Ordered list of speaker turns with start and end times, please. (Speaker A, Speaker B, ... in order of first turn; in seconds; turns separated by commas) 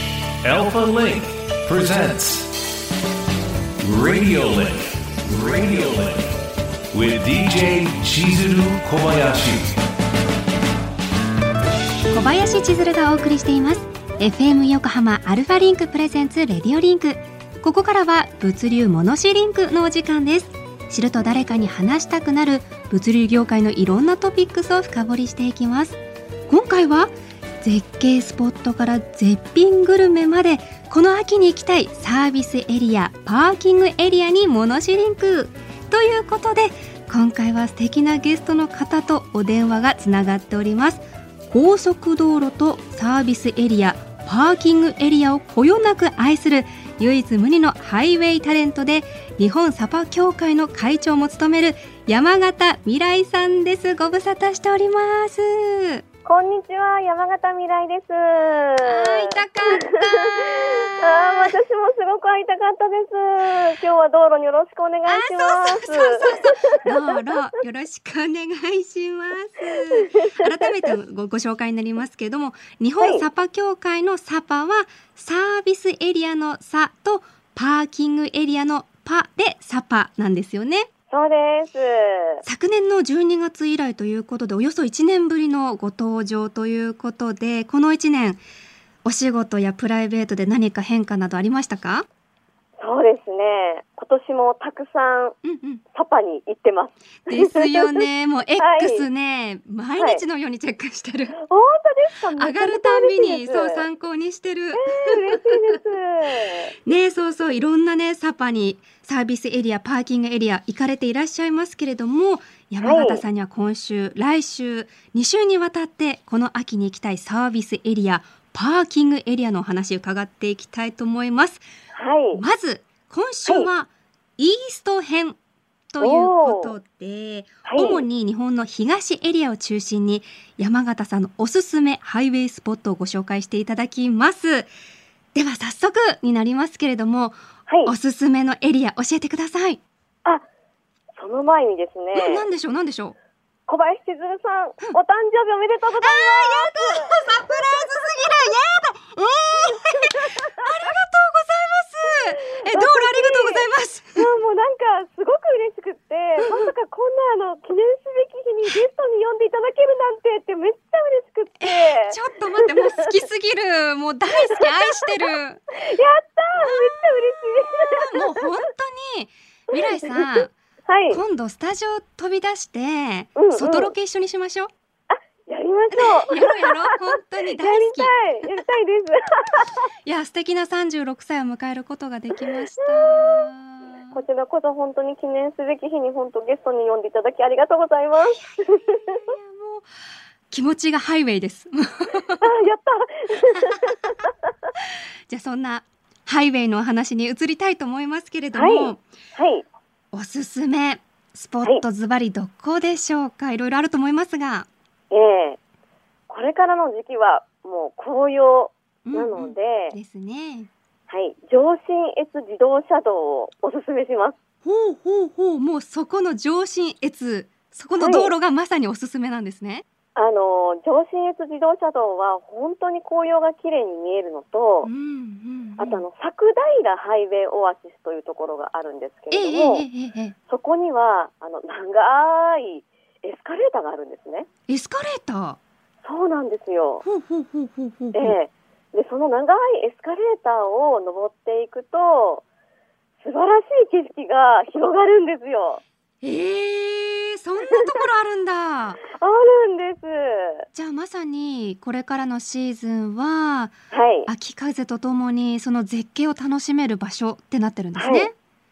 Speaker A: 0.4-2.5, Speaker A: 3.8-6.3, Speaker A: 6.9-9.8, Speaker B: 12.1-56.0, Speaker C: 56.2-67.2, Speaker B: 58.8-61.6, Speaker B: 65.1-80.9, Speaker C: 70.0-70.5, Speaker C: 81.1-82.4, Speaker B: 82.4-88.4, Speaker B: 89.0-92.0, Speaker C: 92.8-95.4, Speaker B: 95.4-95.8, Speaker C: 95.9-98.0, Speaker B: 97.3-101.3, Speaker C: 98.6-99.0, Speaker C: 101.4-103.8, Speaker B: 102.4-105.7, Speaker C: 104.7-106.7, Speaker B: 106.8-121.6, Speaker C: 112.8-113.2, Speaker C: 121.9-122.4, Speaker B: 122.3-125.4, Speaker B: 125.9-134.7, Speaker C: 126.0-126.7, Speaker C: 127.6-128.0, Speaker B: 135.3-139.8, Speaker C: 137.7-137.9, Speaker C: 141.2-142.4, Speaker B: 142.1-143.2, Speaker C: 143.7-147.2, Speaker B: 146.0-154.3, Speaker C: 152.6-163.1, Speaker B: 156.4-156.7, Speaker B: 161.6-165.6, Speaker C: 164.5-165.2, Speaker C: 165.8-168.4, Speaker B: 166.6-166.9, Speaker B: 167.9-170.5, Speaker C: 169.7-170.3, Speaker C: 170.9-171.2, Speaker B: 171.1-174.7, Speaker C: 173.3-173.9, Speaker C: 175.1-176.9, Speaker B: 175.9-178.1, Speaker C: 177.6-179.8, Speaker B: 180.0-184.2, Speaker C: 182.8-183.4, Speaker C: 184.1-189.2, Speaker B: 188.4-189.9, Speaker B: 190.5-192.6, Speaker C: 192.4-194.5, Speaker B: 193.5-199.0, Speaker C: 198.5-199.6, Speaker B: 200.1-204.7, Speaker C: 205.1-205.6, Speaker C: 206.3-209.9, Speaker B: 209.0-210.7, Speaker C: 211.1-214.4, Speaker B: 214.6-219.8, Speaker C: 218.0-218.3, Speaker C: 220.2-224.9, Speaker B: 224.8-226.0, Speaker C: 225.8-229.8, Speaker B: 229.3-230.3, Speaker C: 230.5-234.5, Speaker B: 234.7-235.6, Speaker C: 236.0-237.0, Speaker B: 237.0-238.4, Speaker C: 238.1-242.4, Speaker C: 243.2-245.8, Speaker B: 246.2-249.0, Speaker C: 247.7-248.0, Speaker C: 249.1-250.7, Speaker B: 250.7-253.7, Speaker C: 253.9-254.3, Speaker B: 254.3-258.3, Speaker C: 257.9-258.3